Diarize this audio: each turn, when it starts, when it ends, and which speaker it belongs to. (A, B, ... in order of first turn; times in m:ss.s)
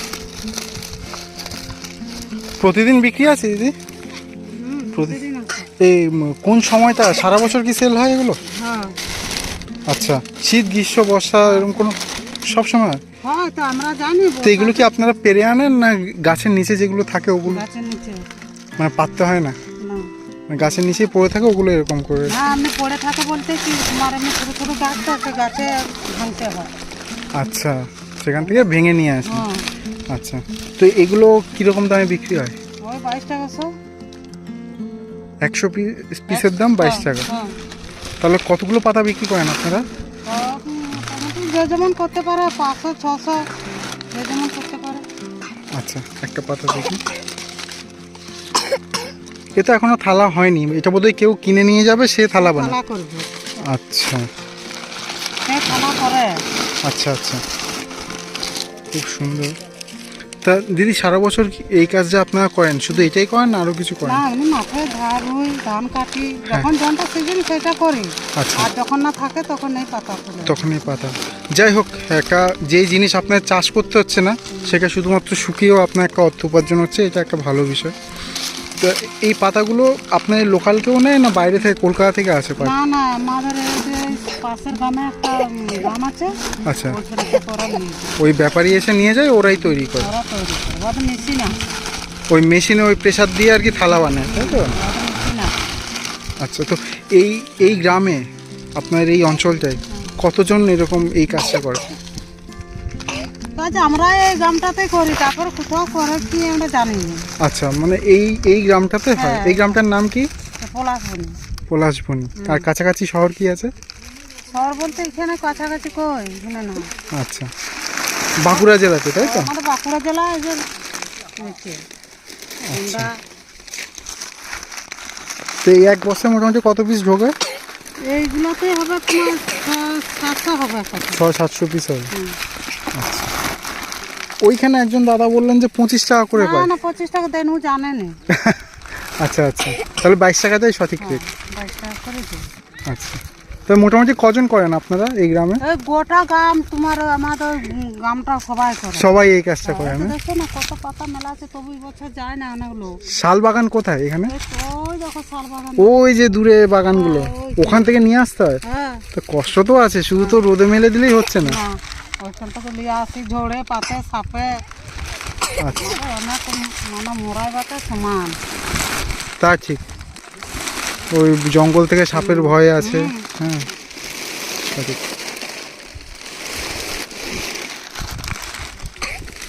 0:02.6-0:03.8 A
0:04.4-0:05.7 B
0:04.9-0:05.2 A
0:05.8-0:08.4 A
0:08.5-0:09.0 B
0:09.9-0:13.0 A
0:13.2-0:14.9 B
0:14.4-0:17.6 A
0:17.5-0:18.2 B
0:18.8-0:19.6 A
0:20.5-0:22.4 A
0:22.3-0:26.7 B
0:27.4-0:29.5 A
0:28.4-0:28.7 B
0:29.2-0:29.7 B
0:30.1-0:32.6 A
0:32.8-0:33.7 B
0:35.4-0:37.3 A
0:36.3-0:37.5 B
0:38.2-0:39.9 A
0:40.3-0:43.4 B
0:44.1-0:45.0 B
0:45.7-0:47.0 A
0:49.6-0:52.8 A
0:52.4-0:53.3 B
0:53.7-0:54.3 A
0:55.5-0:56.3 B
0:56.8-0:57.4 A
0:58.9-0:59.6 A
1:00.4-1:04.2 A
1:04.0-1:10.6 B
1:08.4-1:08.7 A
1:10.5-1:18.0 A
1:14.5-1:14.8 B
1:18.8-1:22.8 A
1:22.6-1:28.2 B
1:26.7-1:27.0 A
1:28.2-1:30.1 A
1:30.0-1:31.6 B
1:32.3-1:34.8 A
1:34.5-1:35.5 B
1:36.4-1:38.2 A
1:38.8-1:41.9 A
1:43.6-1:47.2 B
1:47.4-1:50.3 A
1:49.2-1:49.8 B
1:50.6-1:51.4 B
1:51.7-1:53.7 A
1:52.4-1:52.7 B
1:54.5-1:56.9 B
1:57.1-1:57.5 A
1:58.4-1:59.5 A
1:58.5-2:00.6 B
2:01.3-2:01.8 B
2:02.6-2:03.2 B
2:02.7-2:03.1 A
2:05.6-2:07.4 A
2:08.1-2:11.2 B
2:11.1-2:12.1 A
2:12.1-2:12.4 B
2:12.9-2:13.3 A
2:14.4-2:16.7 A
2:16.4-2:18.2 B
2:18.3-2:18.6 A
2:19.2-2:21.2 A
2:21.0-2:22.4 B
2:22.9-2:25.6 A
2:25.6-2:33.0 B
2:29.0-2:30.2 A
2:33.0-2:34.3 A
2:34.3-2:35.9 B
2:35.8-2:38.6 A
2:36.9-2:37.9 B
2:38.7-2:39.0 B
2:39.1-2:41.6 A
2:40.2-2:40.4 B
2:41.4-2:44.6 B
2:45.6-2:46.0 A
2:45.7-2:48.4 B
2:49.4-2:49.8 A
2:51.1-2:53.7 A
2:52.1-2:53.3 B
2:54.6-2:55.0 A